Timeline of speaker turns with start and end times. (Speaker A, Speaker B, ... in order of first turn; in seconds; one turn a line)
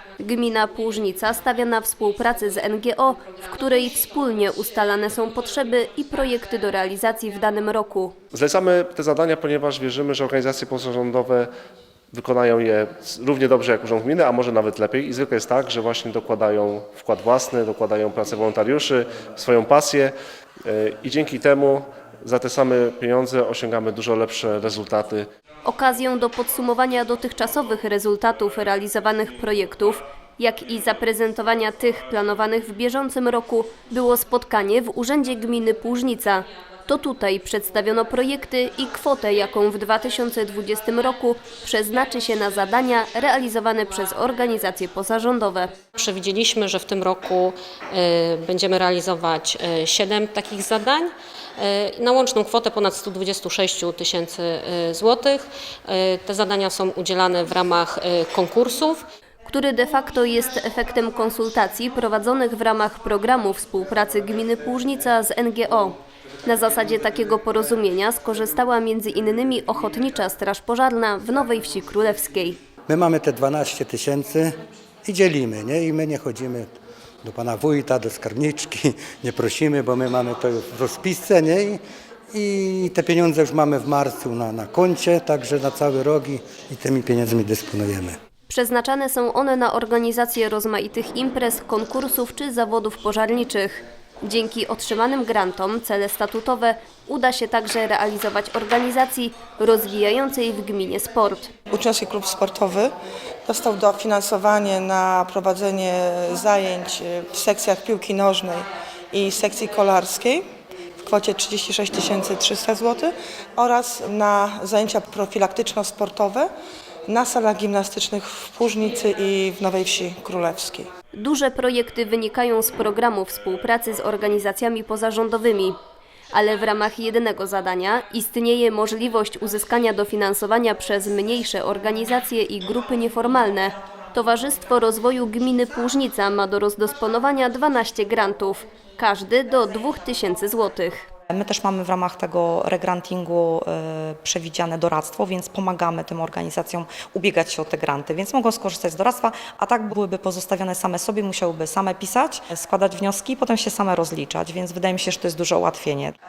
Speaker A: 0.2-8.1
Speaker B: 8.3-11.5
Speaker B: 12.1-20.1
Speaker B: 20.6-25.2
Speaker A: 25.6-45.7
Speaker C: 46.0-59.0
Speaker A: 59.5-65.9
Speaker A: 66.5-72.6
Speaker D: 72.9-74.5
Speaker D: 75.0-76.7
Speaker D: 77.2-81.8
Speaker D: 82.3-88.1
Speaker A: 88.5-101.5
Speaker E: 101.7-102.9
Speaker E: 103.5-110.4
Speaker E: 111.0-116.5
Speaker E: 117.1-120.9
Speaker A: 121.2-125.7
Speaker A: 126.3-141.1
Speaker F: 141.3-156.1